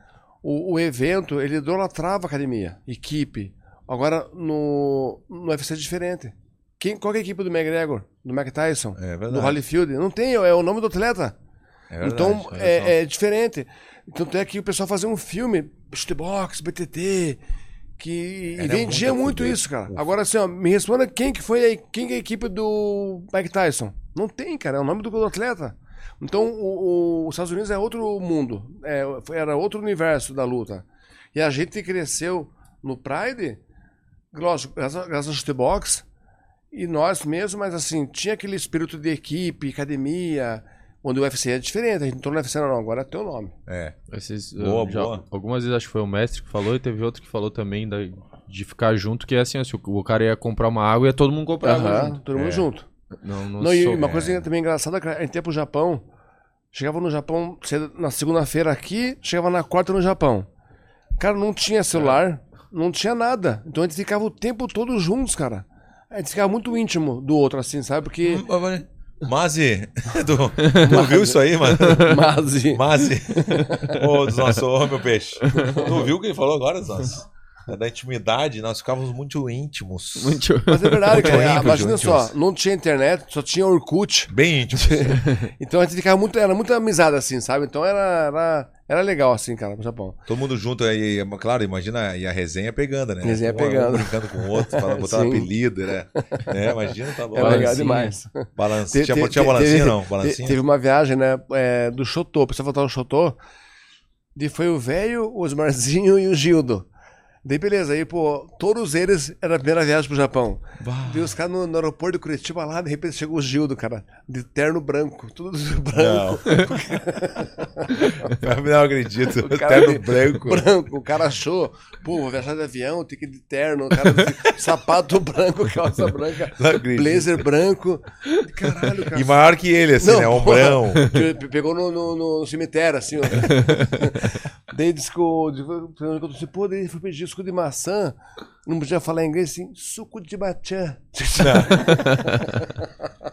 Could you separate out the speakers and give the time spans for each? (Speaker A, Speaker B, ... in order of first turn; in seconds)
Speaker A: 0.4-11.3, 12.0-17.4, 18.0-33.6, 34.3-36.0, 36.7-43.5, 51.6-52.9, 53.6-56.0, 56.7-60.5, 61.2-68.4, 70.7-74.0, 75.6-76.0, 80.7-90.2, 93.2-95.5, 96.2-96.5, 97.3-103.4, 104.3-106.8, 107.4-118.4, 119.3-129.4, 130.0-142.9
Speaker B: 8.9-9.6, 11.9-12.9, 18.6-20.1, 43.7-44.0, 44.6-45.2, 52.3-52.7, 54.0-54.4, 68.2-72.2, 72.7-80.4, 81.1-82.3, 84.3-85.2, 90.2-97.8, 98.5-100.6, 110.8-111.3, 116.0-116.4, 118.1-120.7, 126.5-127.4, 129.1-131.1, 141.4-142.0
Speaker C: 44.1-52.2, 53.1-54.1, 70.6-70.9, 71.9-72.2, 75.5-75.8, 80.2-81.7, 85.2-85.5, 97.4-98.2, 133.4-134.1, 141.9-142.4